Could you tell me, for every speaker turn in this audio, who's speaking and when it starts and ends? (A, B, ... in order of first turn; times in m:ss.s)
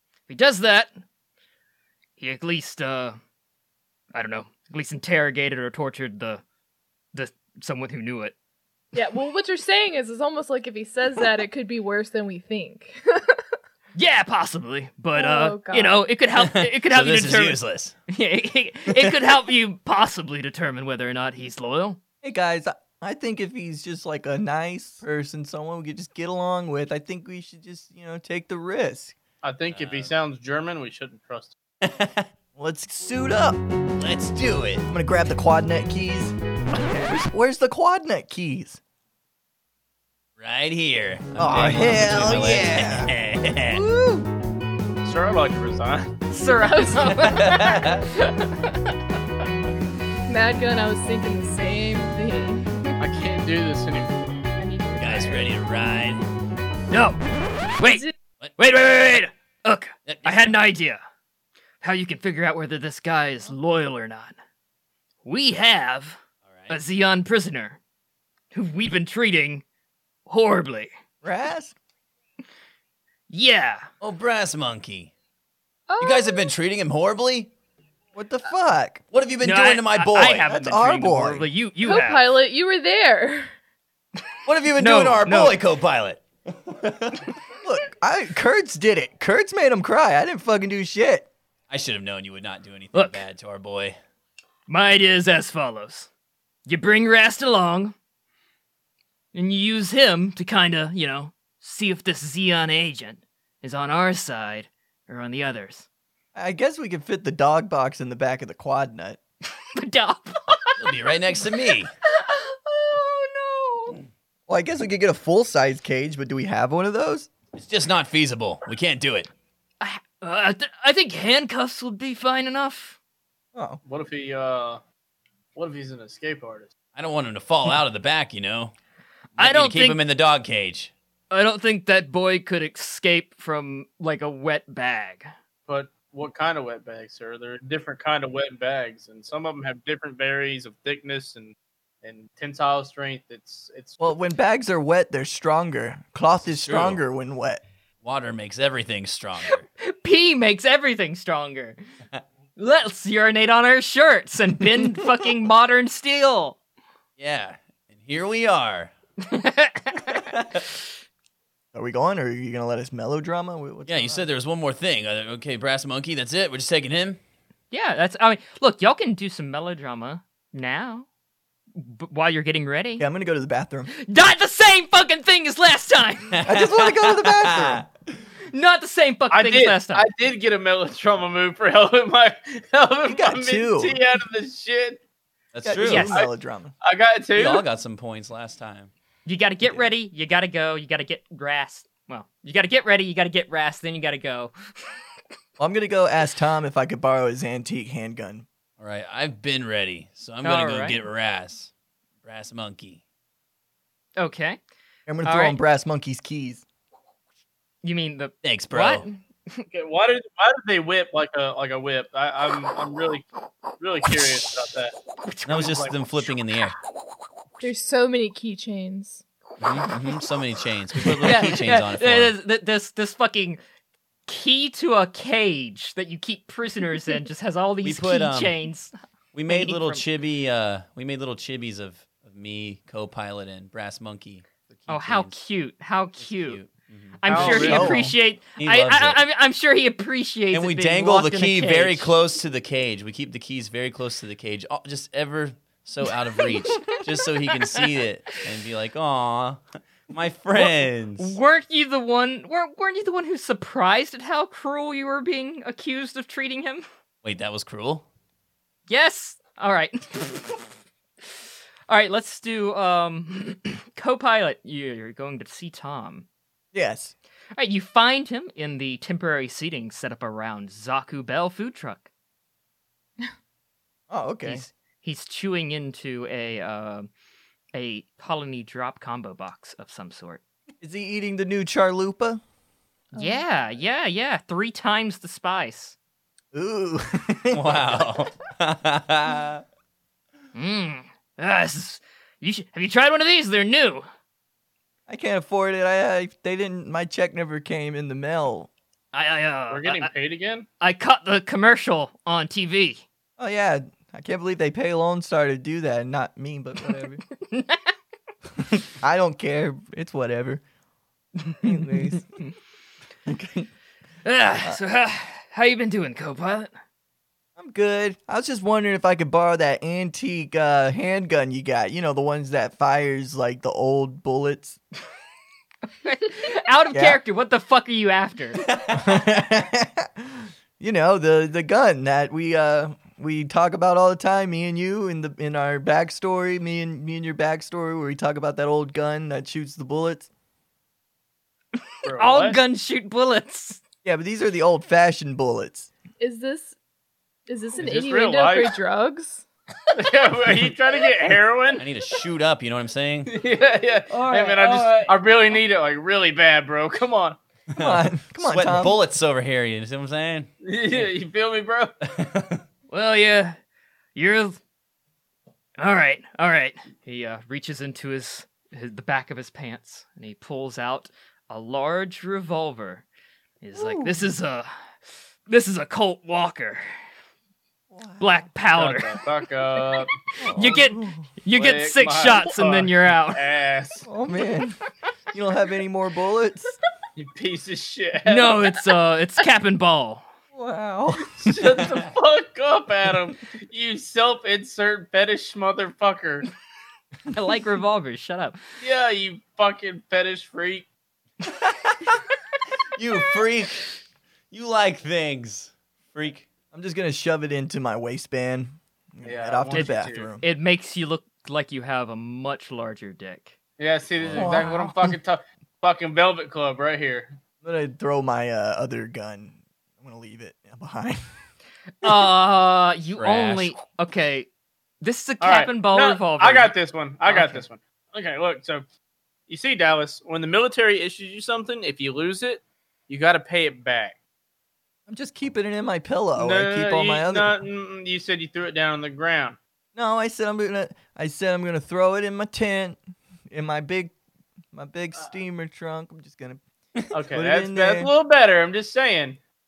0:00.3-0:01.0 A
0:02.2-0:03.2 A
0:04.1-0:06.4 A
0:07.1-0:08.4 A
0:08.9-0:13.4 B
0:14.0-0:22.0 A
0:15.1-0:16.1 B
0:16.4-0:18.0 C
0:22.2-0:29.2 D
0:29.4-0:31.6 E
0:29.7-0:30.1 C
0:31.8-0:32.3 C
0:32.6-0:33.6 D
0:34.0-0:34.9 C
0:34.9-0:38.8 D
0:40.4-0:43.8 C
0:41.4-0:43.1 D
0:43.6-0:44.3 D
0:45.0-0:46.2 E
0:46.3-0:49.0 A
0:46.4-0:47.8 B
0:47.2-0:48.1 C
0:50.3-0:53.0 B
0:53.0-0:54.4 E
0:54.6-0:55.5 B
0:55.0-0:56.3 C
0:56.9-0:57.2 A
0:57.8-1:01.0 A
0:57.8-0:58.1 B
1:00.1-1:00.6 C
1:01.8-1:04.4 A
1:05.2-1:07.8 A
1:06.5-1:06.8 C
1:08.5-1:09.6 A
1:10.3-1:10.9 A
1:11.2-1:11.8 D
1:13.3-1:13.9 A
1:14.0-1:15.1 C
1:15.9-1:16.5 B
1:16.0-1:17.5 C
1:18.1-1:19.0 D
1:19.1-1:20.5 C
1:19.4-1:22.3 A
1:20.5-1:21.5 D
1:21.8-1:23.5 B
1:24.5-1:27.3 C
1:24.8-1:25.6 A
1:27.6-1:31.3 D
1:31.7-1:34.0 C
1:32.9-1:33.2 A
1:34.7-1:36.1 A
1:36.7-1:38.0 A
1:39.3-1:45.9 A
1:46.4-1:49.2 D
1:49.7-1:50.8 A
1:50.8-1:51.9 C
1:52.1-1:54.0 A
1:54.5-1:57.3 D
1:57.5-1:59.3 C
1:59.8-2:03.0 A
2:03.5-2:03.8 D
2:03.9-2:04.8 E
2:05.6-2:06.7 E
2:07.0-2:08.7 C
2:09.4-2:10.0 A
2:09.4-2:10.9 C
2:11.3-2:15.3 A
2:15.7-2:24.1 E
2:24.0-2:27.6 D
2:26.5-2:27.0 C
2:28.0-2:29.7 C
2:29.8-2:31.8 A
2:32.6-2:36.6 A
2:37.2-2:38.9 C
2:39.2-2:40.2 A
2:40.1-2:40.6 C
2:41.7-2:44.3 D
2:43.9-2:47.2 C
2:47.7-2:51.1 A
2:51.8-2:53.1 A
2:53.0-2:53.9 D
2:54.0-2:56.4 A
2:56.4-2:57.9 C
2:56.4-2:57.8 D
2:58.5-3:00.1 A
2:59.3-3:05.0 E
3:03.1-3:04.0 D
3:05.5-3:06.2 C
3:05.6-3:06.7 D
3:05.8-3:06.2 A
3:06.8-3:07.6 E
3:07.4-3:08.9 C
3:09.2-3:14.9 A
3:15.6-3:18.5 D
3:18.8-3:21.7 C
3:20.4-3:21.0 A
3:22.2-3:23.0 C
3:24.2-3:24.6 A
3:25.1-3:26.6 D
3:25.2-3:25.6 A
3:27.8-3:29.2 A
3:28.4-3:29.0 C
3:29.7-3:33.3 E
3:33.8-3:35.0 E
3:35.2-3:35.7 A
3:35.5-3:36.8 C
3:35.6-3:35.9 E
3:37.6-3:39.2 B
3:39.6-3:42.3 C
3:41.2-3:43.6 A
3:44.3-3:48.9 A
3:47.8-3:48.6 C
3:49.3-3:55.4 C
3:49.5-3:50.0 A
3:54.9-3:56.6 A
3:56.2-3:58.0 C
3:57.2-4:02.1 A
3:57.3-3:58.1 E
3:57.6-3:58.1 D
3:58.6-3:59.2 C
4:00.5-4:11.4 C
4:10.6-4:16.8 A
4:17.2-4:18.0 C
4:18.9-4:20.6 A
4:21.2-4:26.3 A
4:26.7-4:27.1 D
4:27.6-4:32.1 A
4:34.1-4:34.6 D
4:34.4-4:37.1 A
4:37.7-4:40.4 A
4:40.8-4:42.4 D
4:43.2-4:43.4 B
4:43.2-4:46.0 A
4:46.5-4:48.1 D
4:47.5-4:49.6 C
4:50.6-4:54.1 A
4:55.1-4:58.7 D
4:59.1-5:00.1 A
4:59.7-5:00.7 E
5:00.8-5:03.0 A
5:03.4-5:07.2 D
5:07.4-5:07.9 A
5:08.6-5:10.6 D
5:11.6-5:12.3 D
5:13.3-5:13.7 D
5:14.2-5:16.7 A
5:17.6-5:24.8 D
5:26.0-5:28.7 A
5:26.9-5:27.2 D
5:28.9-5:40.3 D
5:42.0-5:43.8 A
5:42.0-5:42.6 E
5:44.0-5:45.9 D
5:46.2-5:46.8 B
5:47.5-5:49.4 B
5:47.8-5:48.8 E
5:50.0-5:51.8 E
5:51.8-5:53.3 C
5:53.3-5:57.4 E
5:54.1-5:55.2 A
5:57.7-6:00.5 C
5:57.8-5:59.0 D
6:00.6-6:01.9 E
6:02.1-6:02.6 C
6:02.9-6:03.6 A
6:04.2-6:04.6 A
6:05.8-6:13.0 A
6:13.6-6:14.7 A
6:13.8-6:14.3 D
6:15.5-6:16.9 A
6:17.9-6:18.5 D
6:18.2-6:19.2 A
6:18.7-6:20.1 E
6:20.4-6:21.3 D
6:20.6-6:23.4 A
6:21.5-6:24.1 E
6:24.1-6:24.8 D
6:25.3-6:26.8 D
6:27.2-6:28.6 E
6:28.2-6:30.3 A
6:30.5-6:31.5 D
6:31.4-6:36.5 E
6:37.3-6:38.6 A
6:38.8-6:40.9 E
6:42.9-6:43.9 C
6:44.5-6:46.5 C
6:46.7-6:50.4 D
6:49.2-6:50.3 E
6:49.7-6:53.6 A
6:53.8-6:57.4 E
6:54.2-6:54.6 C
6:54.3-6:55.0 D
6:57.6-7:01.2 D
7:02.0-7:04.5 A
7:03.2-7:03.8 C
7:05.0-7:06.7 A
7:05.4-7:08.9 E
7:07.2-7:07.6 A
7:09.5-7:14.2 E
7:15.1-7:17.6 D
7:16.4-7:19.6 E
7:20.0-7:23.0 D
7:23.5-7:24.2 D
7:24.7-7:26.6 D
7:27.1-7:29.4 E
7:27.3-7:28.1 D